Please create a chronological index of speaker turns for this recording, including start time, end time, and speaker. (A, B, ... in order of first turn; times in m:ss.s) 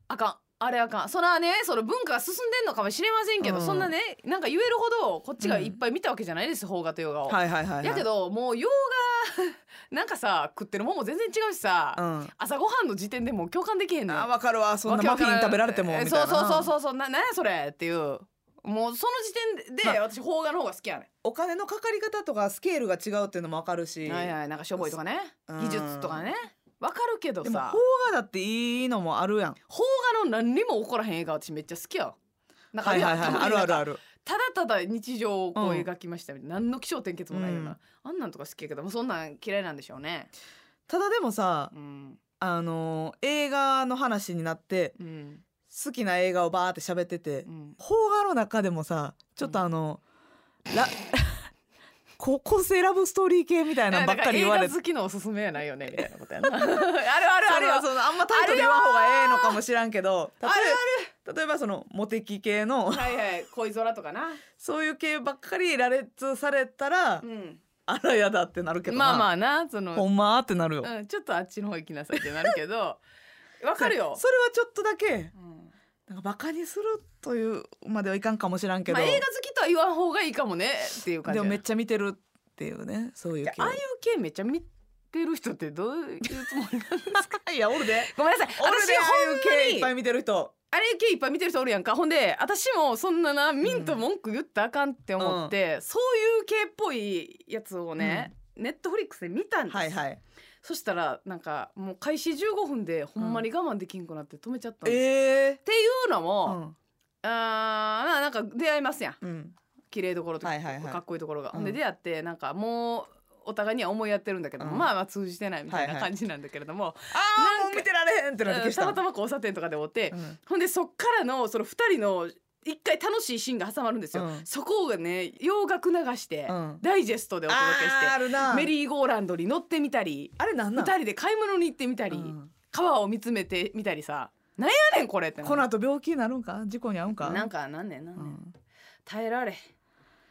0:00.1-0:14.3 A
0:03.4-0:03.9 B
0:05.4-0:05.8 B
0:07.3-0:08.1 B
0:12.0-0:12.3 B
0:14.1-0:16.7 B
0:14.8-0:21.1 A
0:21.2-0:24.9 B
0:24.0-0:27.8 A
0:25.5-0:26.2 B
0:27.4-0:29.6 B
0:29.7-0:32.2 A
0:32.7-0:40.3 A
0:32.8-0:34.0 B
0:35.6-0:35.9 B
0:37.3-0:37.8 B
0:40.9-0:41.7 B
0:41.7-0:42.2 A
0:42.4-0:45.0 B
0:45.0-0:45.4 A
0:45.7-0:50.0 B
0:47.4-0:47.8 A
0:50.7-0:51.5 B
0:52.2-0:54.7 B
0:53.9-0:59.6 A
0:55.9-0:56.9 B
0:57.4-1:03.2 B
1:00.4-1:01.1 A
1:02.9-1:04.4 A
1:04.6-1:07.2 B
1:07.2-1:07.6 A
1:07.8-1:09.3 B
1:08.9-1:10.1 A
1:09.9-1:10.9 B
1:10.8-1:13.0 A
1:13.6-1:14.2 A
1:13.8-1:15.3 B
1:16.1-1:19.2 B
1:18.9-1:21.6 A
1:21.2-1:23.8 B
1:23.4-1:27.4 A
1:27.1-1:30.5 B
1:28.0-1:29.9 A
1:30.7-1:40.0 A
1:33.6-1:34.0 B
1:35.2-1:35.5 B
1:38.0-1:38.3 B
1:39.7-1:40.2 B
1:40.6-1:45.0 A
1:43.2-1:43.4 B
1:44.8-1:45.6 B
1:45.6-1:46.6 A
1:46.4-1:46.8 B
1:47.2-1:49.2 A
1:49.2-1:49.6 B
1:49.9-1:57.8 A
1:50.4-1:51.0 B
1:54.6-1:54.9 B
1:55.7-1:56.1 B
1:57.1-1:59.0 B
1:58.4-2:15.6 A
2:04.1-2:04.4 B
2:06.5-2:06.8 B
2:07.5-2:08.7 B
2:10.4-2:10.9 B
2:12.1-2:12.5 B
2:15.4-2:17.5 B
2:17.2-2:18.4 A
2:18.2-2:18.5 B
2:19.0-2:19.6 A